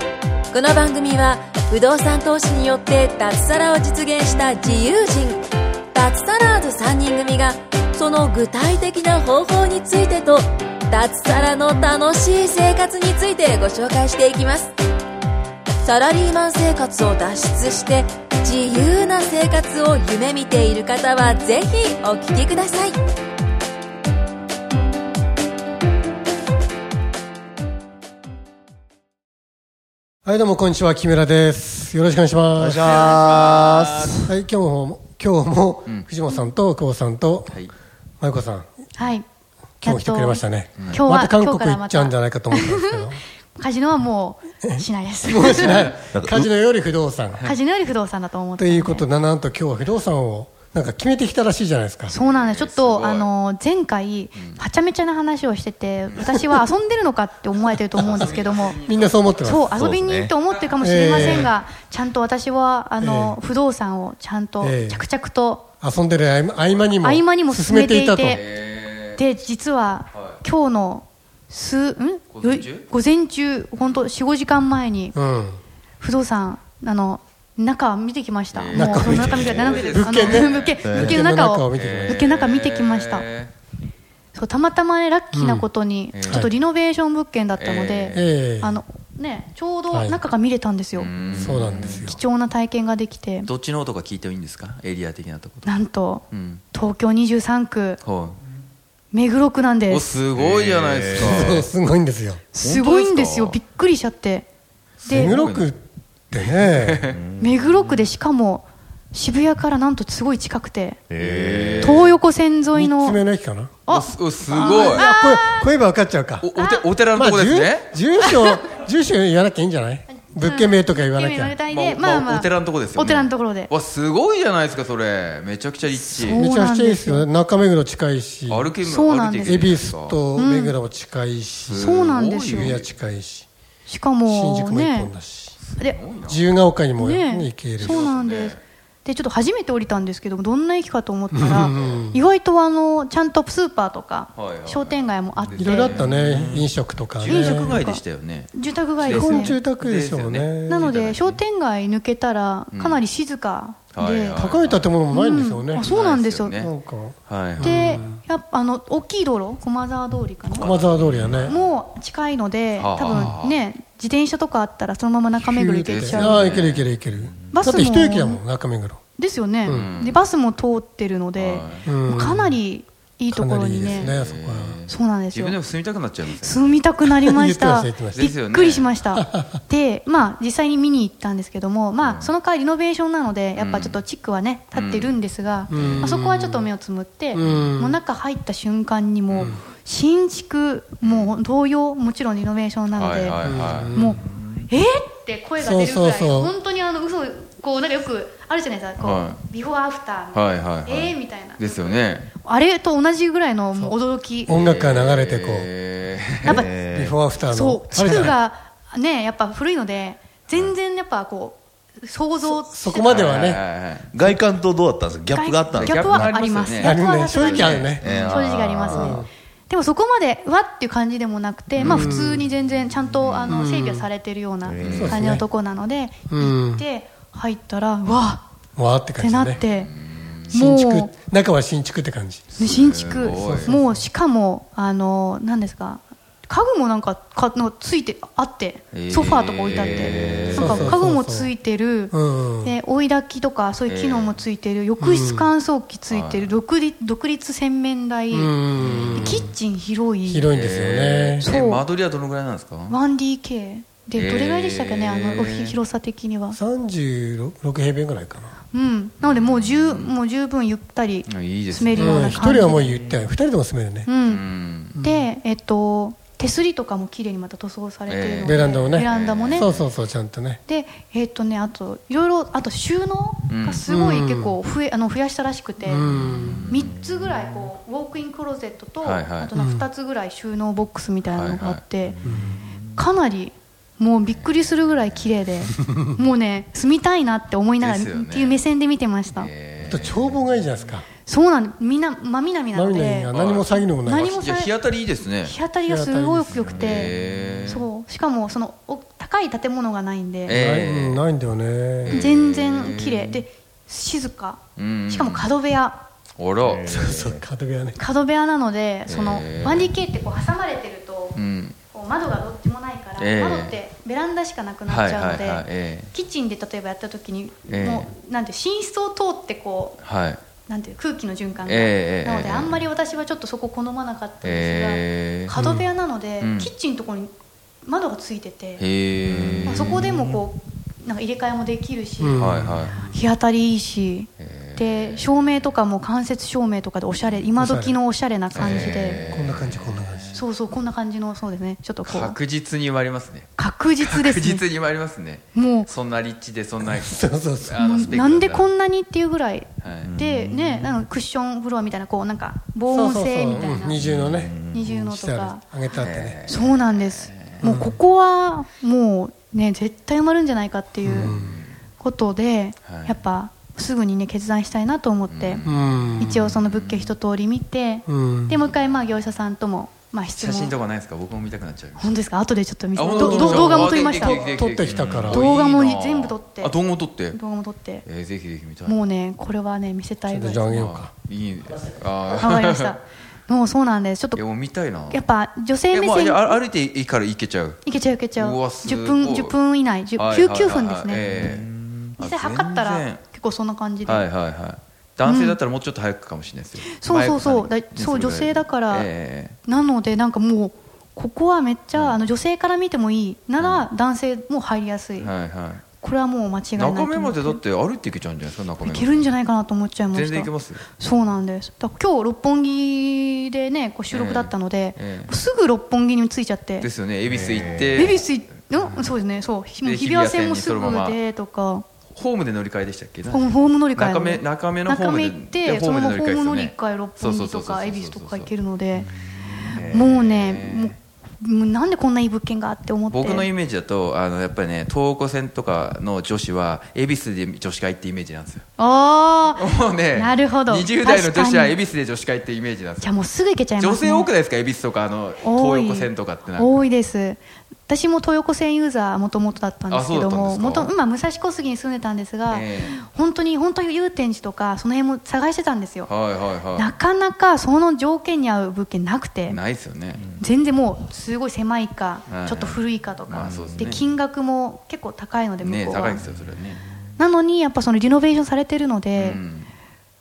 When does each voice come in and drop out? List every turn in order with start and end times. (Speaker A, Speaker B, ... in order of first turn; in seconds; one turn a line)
Speaker A: 0.5-14.7
Speaker A: 15.8-23.0
Speaker B: 30.2-33.3
Speaker C: 32.6-34.3
Speaker D: 32.8-34.3
Speaker B: 34.2-37.6
Speaker B: 38.2-38.8
Speaker E: 39.0-39.3
Speaker B: 39.8-43.2
Speaker E: 39.8-45.9
Speaker B: 44.6-47.5
Speaker C: 46.1-46.5
Speaker E: 47.4-49.1
Speaker B: 48.6-52.2
Speaker E: 52.1-58.8
Speaker D: 52.1-53.3
Speaker D: 54.4-54.6
Speaker D: 56.1-56.4
Speaker B: 56.2-56.6
Speaker D: 57.9-59.6
Speaker B: 58.8-59.8
Speaker E: 59.4-65.7
Speaker C: 59.7-60.4
Speaker D: 60.6-61.5
Speaker B: 60.8-61.5
Speaker B: 63.0-63.4
Speaker B: 64.6-65.1
Speaker B: 65.8-68.4
Speaker E: 67.0-68.5
Speaker D: 68.3-69.2
Speaker E: 69.2-75.2
Speaker D: 70.1-70.4
Speaker D: 72.3-72.9
Speaker B: 75.1-75.6
Speaker E: 76.0-83.3
Speaker D: 78.5-83.5
Speaker B: 78.7-82.3
Speaker C: 79.1-79.9
Speaker C: 80.8-81.2
Speaker E: 84.3-91.1
Speaker B: 85.3-85.7
Speaker D: 86.1-86.5
Speaker B: 86.2-86.5
Speaker D: 87.5-88.3
Speaker B: 88.1-88.8
Speaker B: 89.9-90.2
Speaker D: 90.9-92.2
Speaker B: 91.3-92.2
Speaker E: 91.8-93.5
Speaker D: 93.5-95.7
Speaker E: 95.7-98.0
Speaker D: 96.3-96.6
Speaker D: 98.0-98.4
Speaker E: 99.1-100.2
Speaker D: 99.9-101.7
Speaker C: 100.4-101.4
Speaker B: 101.1-102.4
Speaker E: 102.5-104.5
Speaker D: 102.6-103.6
Speaker D: 105.0-105.7
Speaker B: 105.0-107.0
Speaker E: 105.0-105.4
Speaker D: 106.3-107.2
Speaker C: 107.1-107.6
Speaker E: 107.4-111.0
Speaker C: 111.1-112.1
Speaker D: 111.2-112.1
Speaker E: 111.8-113.2
Speaker B: 112.7-113.8
Speaker E: 113.9-115.7
Speaker D: 113.9-115.1
Speaker B: 114.5-116.5
Speaker D: 116.4-117.9
Speaker E: 116.5-116.8
Speaker B: 117.2-121.6
Speaker E: 118.2-118.6
Speaker E: 120.1-123.7
Speaker D: 121.7-126.4
Speaker E: 125.9-127.3
Speaker B: 126.3-128.7
Speaker D: 128.5-130.2
Speaker E: 128.8-129.7
Speaker B: 129.4-131.9
Speaker E: 130.3-130.8
Speaker D: 131.6-132.9
Speaker E: 131.8-132.8
Speaker B: 132.5-133.5
Speaker E: 133.9-135.1
Speaker B: 134.3-135.6
Speaker D: 135.6-136.5
Speaker B: 136.3-138.1
Speaker E: 137.0-146.1
Speaker D: 137.8-138.6
Speaker B: 141.3-142.2
Speaker D: 141.5-142.0
Speaker D: 144.3-151.4
Speaker B: 145.6-147.8
Speaker E: 147.2-149.6
Speaker B: 149.1-150.9
Speaker E: 150.7-154.5
Speaker D: 152.7-153.0
Speaker D: 153.9-154.9
Speaker B: 154.3-155.9
Speaker E: 155.1-156.6
Speaker D: 155.8-156.7
Speaker B: 156.5-158.2
Speaker D: 157.3-158.1
Speaker E: 157.6-160.8
Speaker D: 160.5-161.6
Speaker B: 160.5-161.6
Speaker E: 161.4-166.5
Speaker D: 162.8-163.6
Speaker B: 163.1-163.3
Speaker B: 165.4-169.0
Speaker D: 166.0-166.9
Speaker C: 167.1-167.5
Speaker E: 167.5-168.4
Speaker E: 169.2-174.1
Speaker B: 169.6-170.0
Speaker D: 169.7-170.2
Speaker D: 171.4-171.9
Speaker B: 171.9-172.6
Speaker B: 173.3-174.8
Speaker D: 173.8-176.7
Speaker E: 174.9-175.6
Speaker E: 176.4-193.4
Speaker B: 177.1-178.3
Speaker D: 178.1-179.0
Speaker B: 179.2-179.5
Speaker D: 182.0-182.3
Speaker D: 183.6-184.0
Speaker D: 184.8-185.2
Speaker D: 185.7-186.1
Speaker B: 185.7-186.7
Speaker D: 187.4-187.8
Speaker B: 187.4-188.0
Speaker D: 191.0-191.3
Speaker D: 192.9-194.0
Speaker B: 193.4-194.2
Speaker E: 193.9-204.5
Speaker C: 194.3-194.7
Speaker B: 195.6-196.5
Speaker D: 199.0-199.4
Speaker D: 200.3-202.3
Speaker D: 204.5-206.6
Speaker B: 204.5-205.7
Speaker E: 206.4-206.7
Speaker C: 206.4-207.2
Speaker B: 206.7-208.3
Speaker E: 207.5-213.2
Speaker D: 207.9-208.3
Speaker B: 212.4-213.6
Speaker D: 213.1-214.1
Speaker C: 214.1-216.7
Speaker E: 215.3-228.4
Speaker D: 215.7-218.4
Speaker B: 216.8-218.1
Speaker C: 218.0-219.2
Speaker B: 218.8-219.3
Speaker D: 221.8-222.4
Speaker B: 221.8-222.5
Speaker D: 223.2-223.6
Speaker B: 223.5-224.1
Speaker C: 224.6-225.1
Speaker D: 224.8-225.3
Speaker B: 225.0-225.4
Speaker B: 226.3-226.8
Speaker B: 228.8-229.6
Speaker E: 229.2-229.9
Speaker D: 229.7-230.6
Speaker E: 230.5-231.1
Speaker B: 230.5-232.5
Speaker D: 232.6-233.7
Speaker E: 232.6-248.5
Speaker B: 233.4-234.1
Speaker D: 238.9-241.0
Speaker C: 239.8-240.7
Speaker B: 240.5-241.5
Speaker B: 242.1-242.8
Speaker D: 243.9-244.4
Speaker B: 245.0-245.5
Speaker D: 246.1-246.5
Speaker B: 248.3-249.5
Speaker D: 248.8-249.5
Speaker E: 249.1-250.5
Speaker B: 250.3-251.5
Speaker D: 250.5-253.0
Speaker E: 251.4-251.8
Speaker E: 252.9-256.6
Speaker D: 254.2-255.8
Speaker B: 256.5-258.5
Speaker E: 258.7-262.9
Speaker D: 259.2-260.1
Speaker D: 261.3-262.6
Speaker B: 262.0-264.1
Speaker C: 262.7-263.3
Speaker E: 264.1-264.4
Speaker D: 264.3-265.0
Speaker B: 265.0-265.3
Speaker E: 265.0-269.7
Speaker D: 268.1-269.9
Speaker B: 268.4-270.6
Speaker E: 270.7-276.1
Speaker D: 273.5-273.8
Speaker B: 273.9-274.6
Speaker B: 275.8-276.7
Speaker D: 276.0-276.9
Speaker E: 276.7-282.2
Speaker C: 276.7-277.5
Speaker D: 279.0-279.5
Speaker B: 279.5-279.9
Speaker D: 281.3-281.8
Speaker C: 282.2-282.9
Speaker B: 282.2-282.6
Speaker E: 282.9-289.5
Speaker D: 284.3-285.4
Speaker B: 285.8-286.1
Speaker D: 287.8-288.6
Speaker D: 289.3-290.5
Speaker B: 289.9-291.1
Speaker E: 291.3-294.8
Speaker B: 292.7-294.3
Speaker D: 293.3-295.6
Speaker E: 295.4-297.1
Speaker B: 295.9-296.9
Speaker D: 296.6-297.9
Speaker C: 297.1-297.6
Speaker E: 297.7-300.6
Speaker D: 300.4-301.2
Speaker B: 300.5-302.3
Speaker D: 302.1-303.4
Speaker E: 302.1-306.0
Speaker D: 304.8-305.5
Speaker D: 306.4-307.3
Speaker C: 306.6-307.4
Speaker B: 306.9-308.0
Speaker E: 308.0-311.4
Speaker D: 309.1-309.9
Speaker D: 311.4-311.8
Speaker E: 311.9-320.0
Speaker D: 313.2-313.7
Speaker D: 314.9-316.1
Speaker D: 317.7-318.1
Speaker D: 320.0-320.4
Speaker E: 320.7-327.3
Speaker D: 321.6-322.8
Speaker D: 324.4-325.6
Speaker B: 325.6-325.9
Speaker D: 326.4-326.7
Speaker E: 327.9-328.8
Speaker D: 328.8-330.1
Speaker C: 329.3-330.2
Speaker E: 329.7-339.2
Speaker B: 332.2-333.1
Speaker D: 332.4-333.1
Speaker D: 334.4-335.6
Speaker B: 337.6-338.0
Speaker D: 338.5-340.4
Speaker B: 338.6-340.4
Speaker E: 340.3-342.4
Speaker D: 342.1-343.5
Speaker E: 343.6-344.6
Speaker D: 344.0-348.7
Speaker E: 345.6-345.9
Speaker B: 346.8-348.0
Speaker E: 347.8-354.0
Speaker D: 349.8-350.1
Speaker C: 350.0-351.1
Speaker B: 352.9-356.4
Speaker C: 353.9-354.9
Speaker D: 354.0-354.5
Speaker E: 354.7-355.6
Speaker D: 356.0-357.8
Speaker E: 356.5-361.4
Speaker B: 357.6-358.0
Speaker B: 361.0-361.6
Speaker D: 361.1-361.7
Speaker E: 362.0-365.6
Speaker D: 362.9-363.2
Speaker D: 365.3-367.1
Speaker B: 365.6-366.4
Speaker E: 366.2-370.8
Speaker B: 368.1-368.6
Speaker D: 370.3-372.1
Speaker E: 372.0-374.4
Speaker D: 372.9-377.4
Speaker B: 373.1-375.5
Speaker C: 374.9-375.4
Speaker E: 375.3-376.8
Speaker E: 377.3-378.1
Speaker D: 378.1-379.0
Speaker E: 378.9-380.7
Speaker B: 380.3-381.1
Speaker D: 380.7-382.9
Speaker E: 382.4-384.4
Speaker D: 384.4-385.3
Speaker E: 385.1-386.6
Speaker D: 385.9-387.8
Speaker E: 387.8-391.2
Speaker D: 388.4-389.6
Speaker D: 390.2-393.2
Speaker C: 391.1-392.2
Speaker E: 392.2-394.3
Speaker D: 394.1-399.6
Speaker E: 395.2-395.6
Speaker E: 396.9-399.1
Speaker E: 399.7-405.3
Speaker D: 401.9-402.2
Speaker D: 403.6-403.9
Speaker D: 405.2-405.8
Speaker E: 406.0-407.6
Speaker D: 406.8-409.3
Speaker E: 408.8-416.9
Speaker D: 410.1-410.9
Speaker D: 414.1-415.3
Speaker D: 416.8-419.1
Speaker C: 417.2-418.2
Speaker E: 417.9-421.9
Speaker D: 419.8-421.2
Speaker D: 422.1-428.5
Speaker E: 423.3-429.1
Speaker C: 429.6-429.9
Speaker E: 429.7-433.5
Speaker D: 429.7-431.0
Speaker D: 433.1-438.7
Speaker E: 438.8-441.8
Speaker D: 439.6-443.1
Speaker E: 443.0-444.3
Speaker D: 443.8-446.9
Speaker E: 445.4-456.1
Speaker D: 449.9-450.9
Speaker D: 452.5-453.0
Speaker D: 456.1-456.9
Speaker E: 456.8-459.6
Speaker D: 459.5-460.2
Speaker C: 460.1-460.4
Speaker E: 460.4-466.2
Speaker D: 462.3-464.1
Speaker C: 463.5-464.0
Speaker D: 465.6-466.8
Speaker E: 467.2-469.4
Speaker D: 469.2-469.7